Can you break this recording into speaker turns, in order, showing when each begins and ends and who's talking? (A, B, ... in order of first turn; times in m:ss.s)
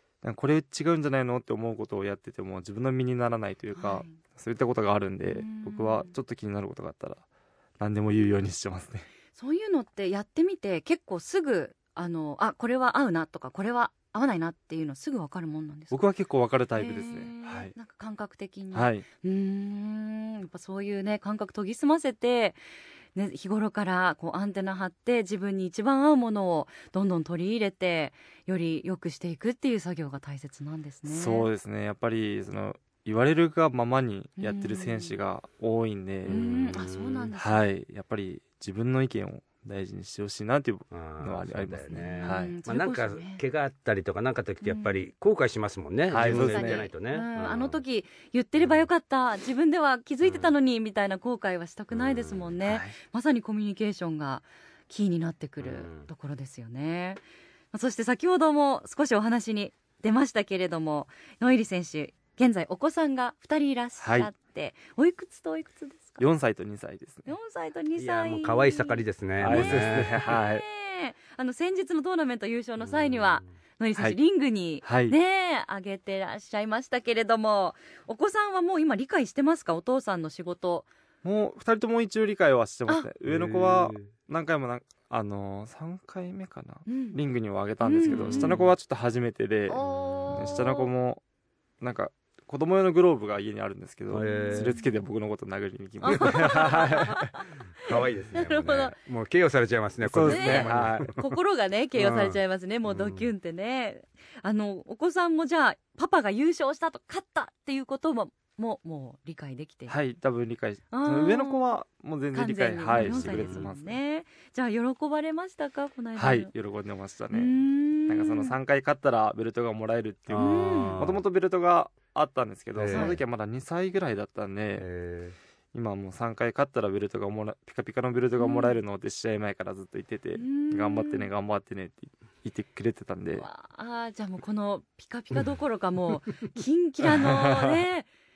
0:00.2-0:07.2 A
0:03.8-0:04.2 B
0:05.3-0:06.1 B
0:07.8-0:09.1 A
0:09.4-0:16.0 B
0:15.9-0:17.7 A
0:16.8-0:22.6 B
0:18.7-0:19.0 A
0:23.2-0:31.5 B
0:31.1-0:36.8 A
0:34.4-0:35.2 B
0:36.3-0:37.3 C
0:36.3-0:37.6 B
0:37.4-0:42.6 A
0:40.9-0:47.8 C
0:42.0-0:43.4 B
0:44.6-0:45.0 B
0:46.1-0:46.9 A
0:46.2-1:06.2 B
0:48.6-0:48.8 C
0:50.2-0:50.5 C
0:51.9-0:52.5 C
0:52.6-0:53.0 A
0:55.6-0:56.1 C
1:04.0-1:04.3 A
1:06.2-1:07.3 A
1:07.3-1:20.9 B
1:08.0-1:10.3 C
1:09.4-1:10.6 A
1:12.8-1:13.5 C
1:14.8-1:15.2 A
1:21.2-1:31.2 A
1:23.3-1:24.1 C
1:26.9-1:27.2 B
1:27.8-1:28.6 B
1:28.1-1:28.7 C
1:29.7-1:30.9 B
1:31.8-1:37.4 A
1:34.1-1:34.8 C
1:34.2-1:34.8 B
1:36.0-1:39.0 B
1:36.1-1:36.9 C
1:37.8-1:41.3 C
1:40.0-1:41.2 A
1:40.2-1:50.0 B
1:42.0-1:43.3 C
1:49.9-1:54.0 A
1:50.9-1:51.7 B
1:52.3-1:56.5 B
1:52.9-1:53.6 C
1:56.2-1:57.6 A
1:57.3-1:58.6 B
1:58.1-2:04.9 A
2:00.3-2:01.2 C
2:00.4-2:01.0 B
2:02.8-2:03.2 C
2:02.9-2:03.2 B
2:04.8-2:05.4 C
2:05.7-2:13.5 A
2:08.4-2:08.8 B
2:10.4-2:11.3 B
2:13.4-2:18.1 B
2:17.2-2:17.7 A